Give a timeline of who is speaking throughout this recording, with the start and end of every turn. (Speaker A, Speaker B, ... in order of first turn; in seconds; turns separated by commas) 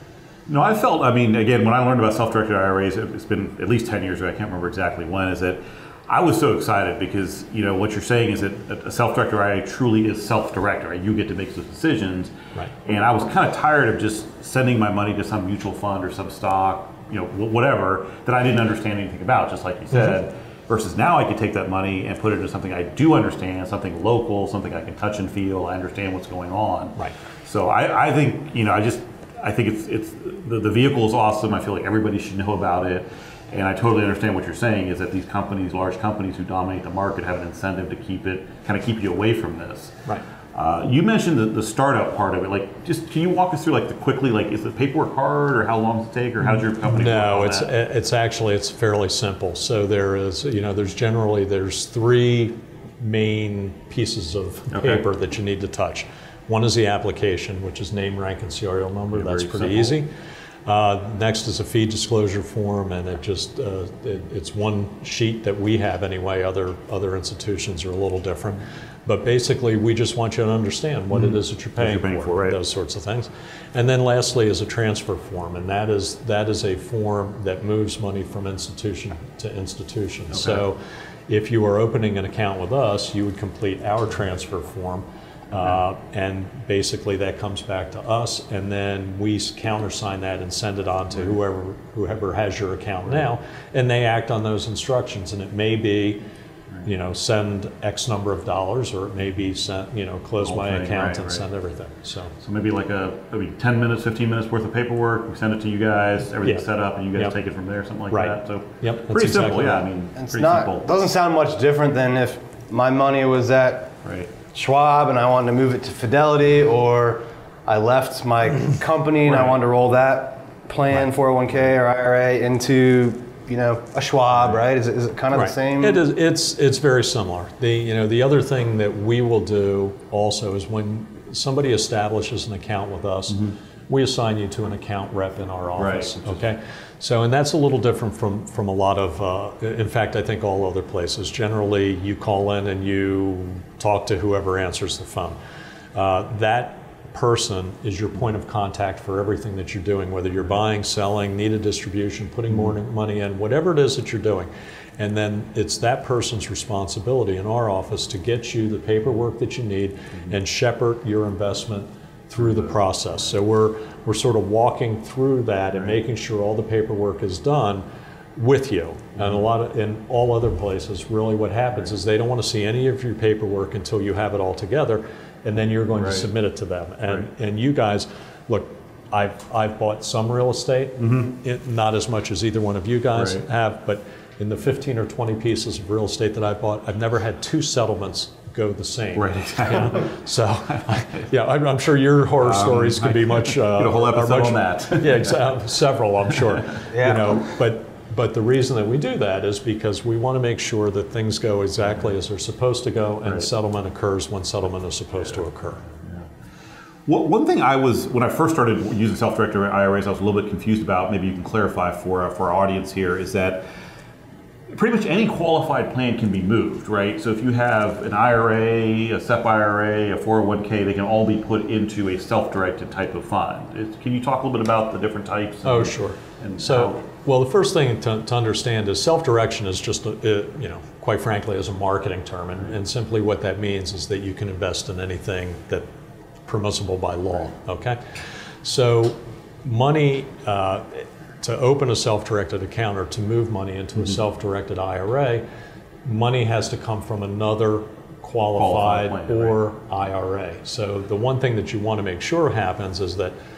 Speaker A: 0.5-12.3, Speaker A: 12.8-47.7, Speaker B: 46.9-60.1, Speaker A: 54.7-55.0, Speaker A: 59.1-60.0, Speaker B: 60.6-96.2, Speaker A: 71.1-72.6, Speaker A: 80.3-80.6, Speaker B: 96.8-102.3, Speaker A: 100.4-101.5, Speaker A: 102.4-110.9, Speaker B: 108.1-109.8, Speaker C: 110.2-113.9, Speaker A: 114.0-114.3, Speaker C: 114.5-126.0, Speaker A: 119.3-119.6, Speaker B: 125.3-145.4, Speaker A: 135.8-136.4, Speaker B: 145.9-167.8, Speaker B: 168.3-205.8, Speaker A: 176.0-176.3, Speaker A: 181.0-181.3, Speaker A: 183.2-183.4, Speaker A: 189.2-190.1, Speaker A: 190.7-191.2, Speaker A: 192.4-195.5, Speaker A: 196.3-196.7, Speaker C: 196.9-197.4, Speaker A: 206.0-206.2, Speaker A: 207.1-213.6, Speaker A: 214.7-227.0, Speaker B: 225.6-235.9, Speaker B: 236.4-245.4, Speaker B: 246.0-253.3, Speaker A: 248.6-249.6